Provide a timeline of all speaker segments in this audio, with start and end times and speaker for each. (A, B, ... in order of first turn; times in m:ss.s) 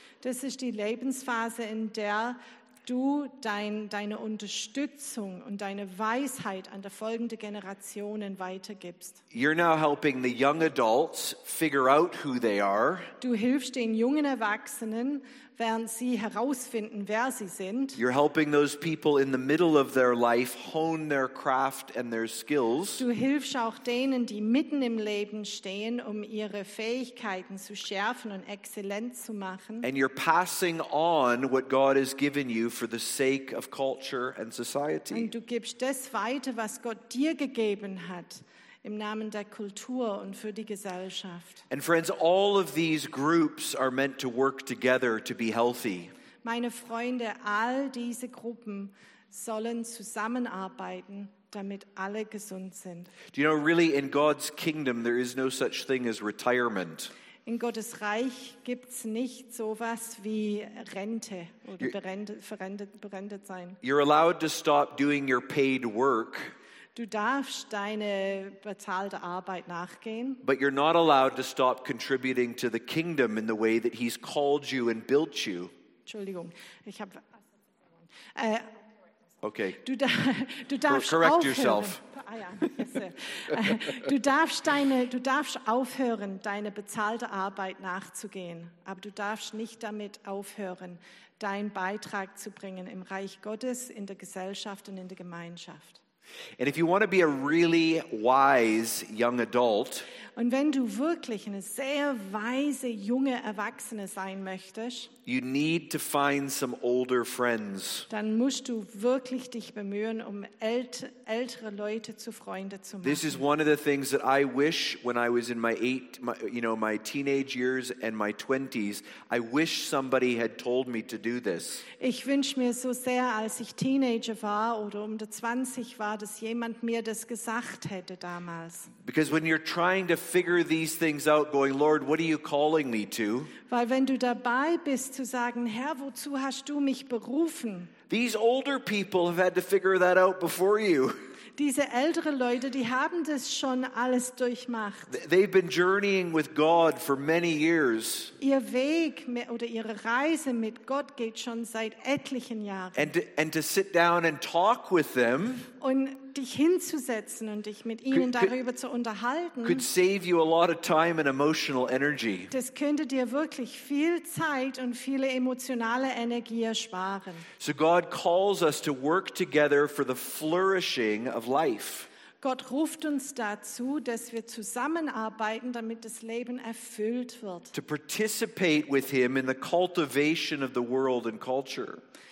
0:00.2-0:09.2 A
0:09.3-0:13.1 B
0:13.2-0:18.0 A
0:18.0-0:23.1 B
0:23.0-0:29.9 A
0:29.8-0:35.3 B
0:35.1-0:41.6 A
0:41.7-0:46.1 B
0:46.4-0:53.1 A
0:53.3-0:57.1 B
0:57.5-1:03.8 A
1:03.8-1:06.5 B
1:07.0-1:10.4 A
1:10.4-1:15.7 B
1:16.1-1:17.4 A
1:18.1-1:18.8 A
1:19.4-1:19.8 B
1:19.8-1:36.0 A
1:20.9-1:22.0 B
1:36.6-1:40.1 B
1:40.4-1:45.1 A
1:45.3-1:48.1 B
1:48.1-1:53.4 A
1:53.0-2:01.9 B
2:02.0-2:08.9 A
2:09.0-2:13.5 B
2:13.7-2:17.9 A
2:18.1-2:21.2 B
2:21.6-2:25.1 A
2:25.1-2:28.4 B
2:28.4-2:33.1 A
2:33.0-2:35.7 B
2:35.8-2:39.9 A
2:38.1-2:38.5 B
2:39.6-2:42.5 B
2:42.5-2:47.5 A
2:47.6-2:52.1 B
2:52.4-2:57.7 A
2:57.7-3:02.0 B